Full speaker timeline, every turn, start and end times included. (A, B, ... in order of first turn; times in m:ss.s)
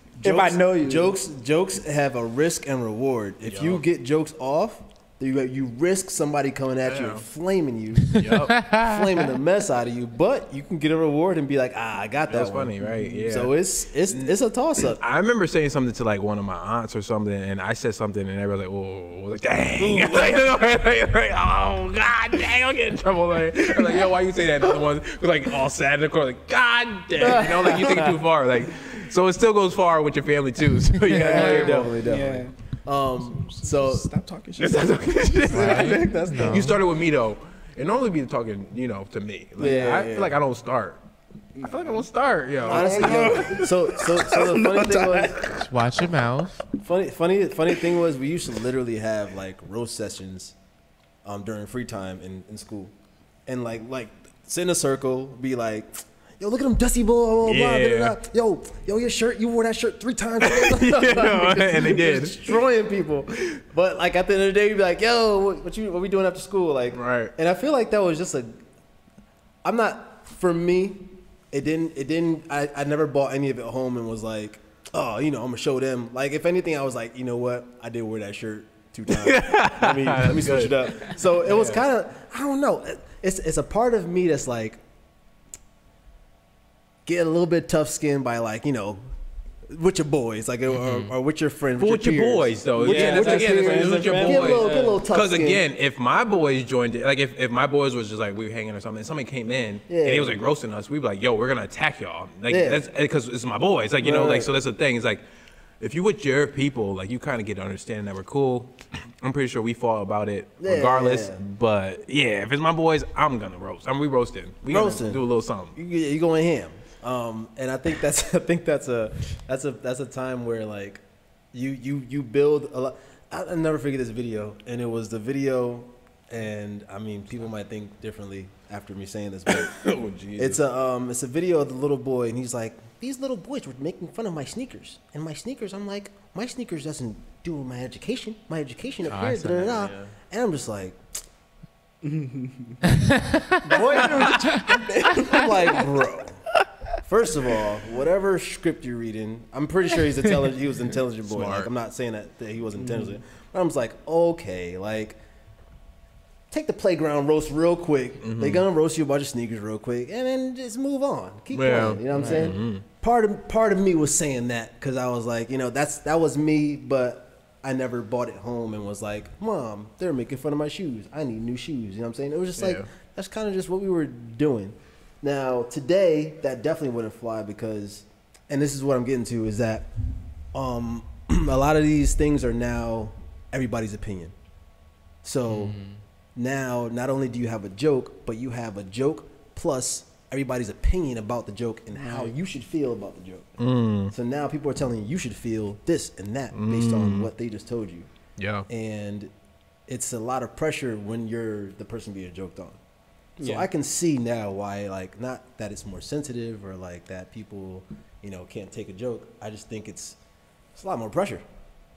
0:00.2-0:01.2 A
0:00.2-0:15.0 B
0:03.4-0:03.8 C
0:06.9-0:07.2 C
0:08.1-0:08.7 C
0:08.1-0:09.3 D
0:12.3-0:13.5 C
0:14.1-0:31.9 C
0:19.8-0:20.4 B
0:27.2-0:28.2 B
0:31.1-0:31.7 D
0:31.1-0:34.1 B
0:31.2-0:32.5 A
0:33.2-0:36.5 A
0:34.6-0:41.0 C
0:35.5-0:36.8 D
0:35.8-0:36.6 B
0:39.6-0:40.4 B
0:41.6-0:42.0 A
0:41.6-0:44.1 C
0:42.6-0:45.5 A
0:42.6-0:45.4 B
0:45.6-0:46.6 D
0:46.8-0:50.6 B
0:51.2-0:52.9 B
0:53.5-1:08.5 B
0:57.4-0:58.2 C
1:00.4-1:02.4 C
1:06.9-1:07.3 C
1:09.6-1:24.8 B
1:19.1-1:21.8 C
1:27.0-1:29.0 B
1:29.7-1:35.6 B
1:31.8-1:45.2 C
1:32.8-1:35.0 A
1:39.9-1:40.4 B
1:42.5-1:42.9 B
1:44.0-1:44.5 B
1:45.8-1:55.8 C
1:50.6-1:51.4 B
1:54.7-1:55.2 B
1:55.8-2:01.0 B
2:01.5-2:09.8 B
2:09.5-2:10.6 C
2:10.4-2:21.0 B
2:19.1-2:19.9 D
2:19.7-2:20.1 C
2:22.0-2:22.9 A
2:23.1-2:23.6 D
2:23.6-2:24.5 B
2:23.7-2:25.9 A
2:25.1-2:26.5 B
2:27.0-2:35.2 B
2:31.3-2:31.7 C
2:32.8-2:33.2 A
2:36.5-2:59.9 B
2:38.2-2:38.6 C
2:41.5-2:42.8 C
2:42.1-2:42.5 D
2:52.6-2:52.8 C
3:00.5-3:04.3 B
3:05.2-3:05.8 B
3:05.5-3:06.0 D
3:06.4-3:13.5 B
3:13.6-3:14.1 C
3:14.1-3:18.1 B
3:16.5-3:17.3 C
3:18.4-3:18.7 C
3:18.7-3:19.3 B
3:19.9-3:22.8 B
3:23.4-3:23.7 A
3:23.4-3:30.2 B
3:30.8-3:31.4 B